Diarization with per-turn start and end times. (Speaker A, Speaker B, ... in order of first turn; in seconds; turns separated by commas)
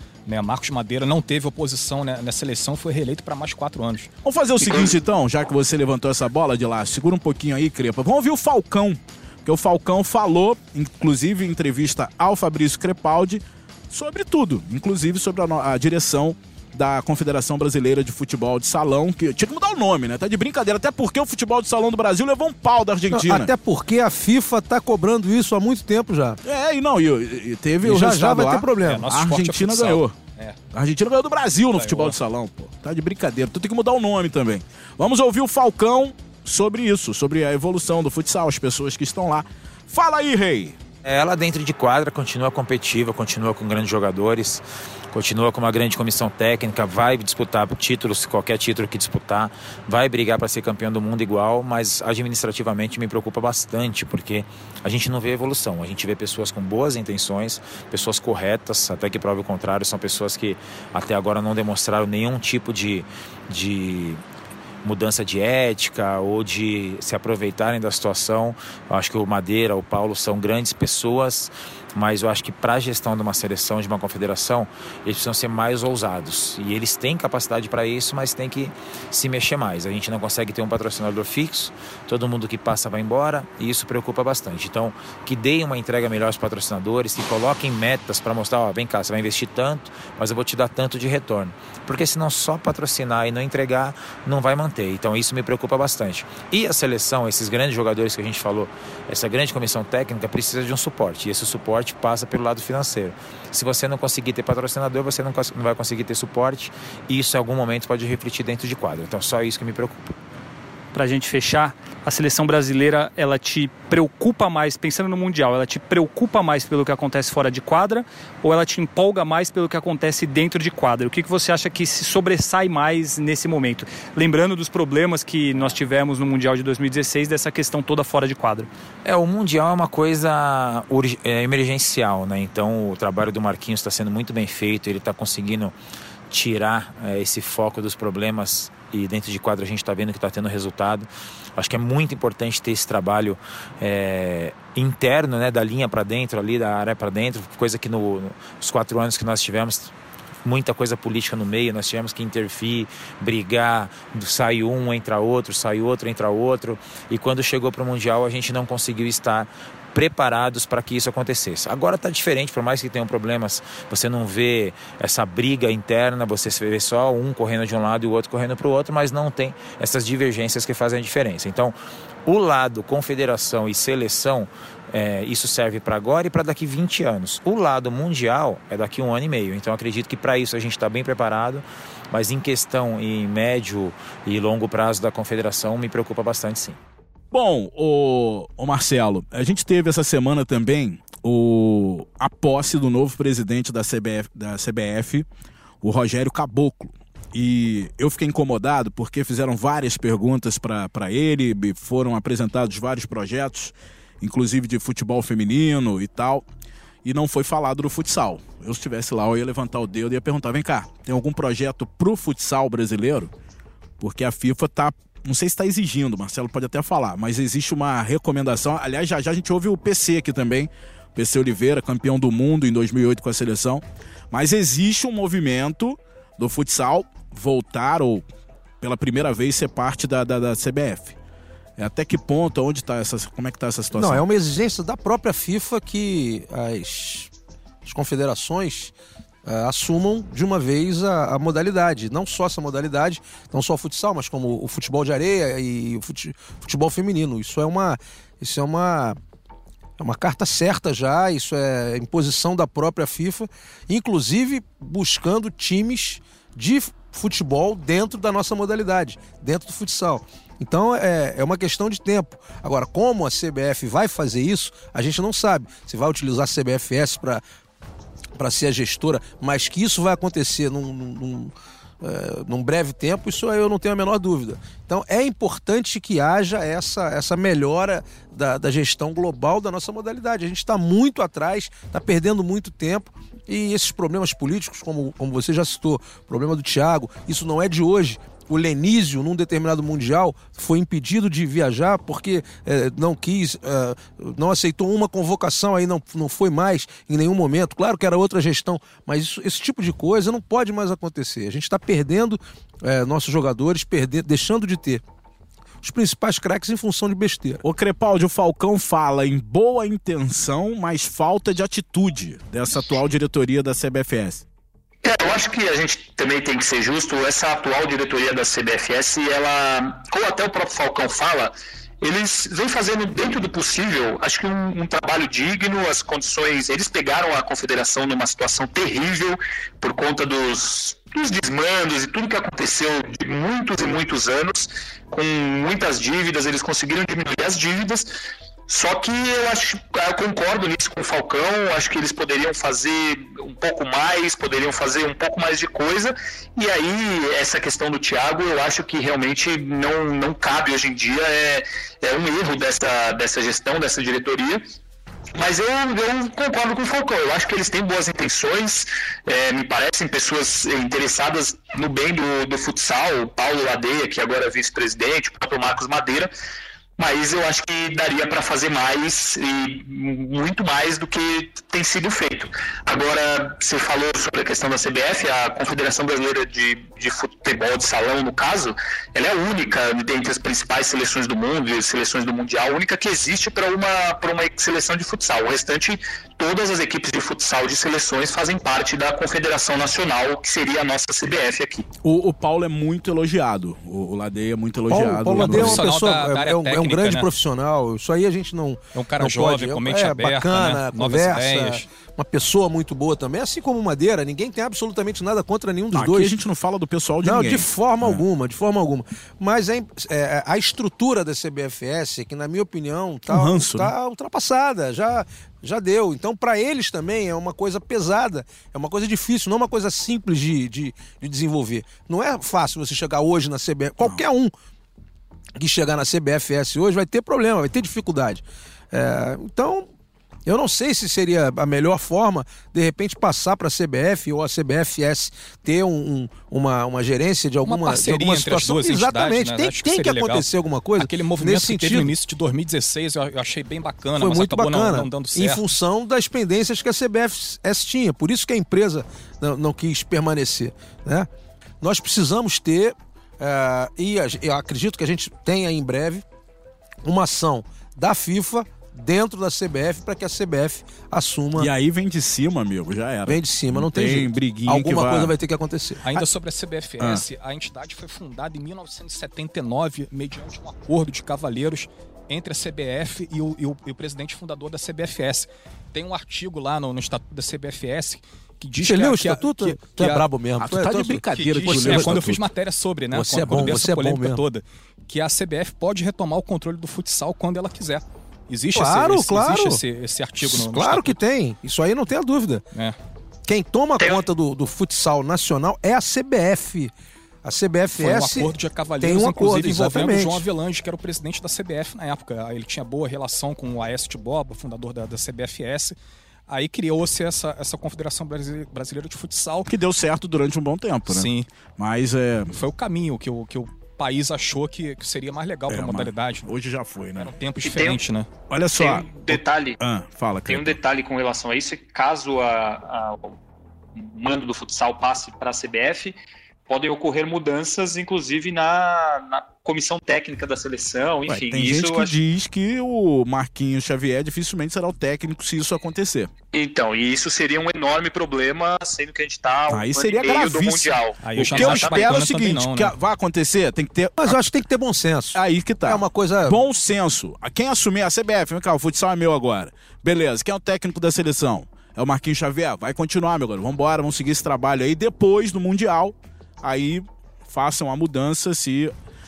Speaker A: 0.3-4.1, Speaker B: 4.2-23.5, Speaker C: 4.6-5.0, Speaker D: 23.1-26.4, Speaker B: 26.4-30.1, Speaker D: 27.8-29.1, Speaker A: 28.8-30.6, Speaker B: 30.7-40.8, Speaker A: 31.7-32.1, Speaker E: 41.0-64.2, Speaker E: 64.8-110.1, Speaker F: 110.9-128.7, Speaker E: 129.0-135.8, Speaker E: 136.3-149.9, Speaker E: 150.4-186.8, Speaker B: 187.3-195.3, Speaker B: 195.8-206.4, Speaker B: 207.0-213.3, Speaker B: 214.0-228.2, Speaker B: 228.8-231.1, Speaker B: 231.8-234.2, Speaker D: 233.9-237.3, Speaker D: 237.8-238.9, Speaker D: 239.4-249.2, Speaker D: 250.0-267.4, Speaker D: 268.4-305.0, Speaker D: 305.8-307.6, Speaker B: 307.6-314.4, Speaker C: 315.0-338.1, Speaker C: 338.7-354.6, Speaker C: 355.3-366.3, Speaker C: 367.0-391.9, Speaker B: 392.0-395.8, Speaker D: 394.9-406.3, Speaker A: 395.3-397.3, Speaker A: 398.9-401.9, Speaker B: 405.9-408.2, Speaker D: 407.2-424.5, Speaker B: 413.3-413.9, Speaker D: 425.6-429.9, Speaker D: 430.4-442.1, Speaker A: 437.6-440.4, Speaker A: 441.0-445.7, Speaker D: 444.2-451.3, Speaker D: 451.8-456.2, Speaker D: 457.0-461.7, Speaker B: 461.5-465.3, Speaker D: 463.2-466.0, Speaker A: 466.0-480.3, Speaker D: 478.8-482.2, Speaker B: 480.6-482.5, Speaker A: 481.3-491.2, Speaker D: 483.1-484.4, Speaker D: 488.7-489.8, Speaker D: 490.4-492.6, Speaker D: 493.4-496.9, Speaker C: 494.0-494.2, Speaker D: 497.4-500.4, Speaker A: 498.0-505.9, Speaker A: 506.5-509.7, Speaker B: 509.7-512.5, Speaker A: 511.1-511.5, Speaker A: 512.5-516.5, Speaker B: 515.7-517.3, Speaker A: 517.1-518.3, Speaker C: 517.6-518.0, Speaker B: 518.5-520.8, Speaker C: 518.8-519.8, Speaker C: 520.5-523.4, Speaker C: 523.9-526.1, Speaker C: 526.7-532.1, Speaker B: 531.3-536.3, Speaker C: 536.5-542.1, Speaker B: 539.7-544.5, Speaker A: 541.2-542.9, Speaker D: 544.2-546.6, Speaker B: 545.3-558.9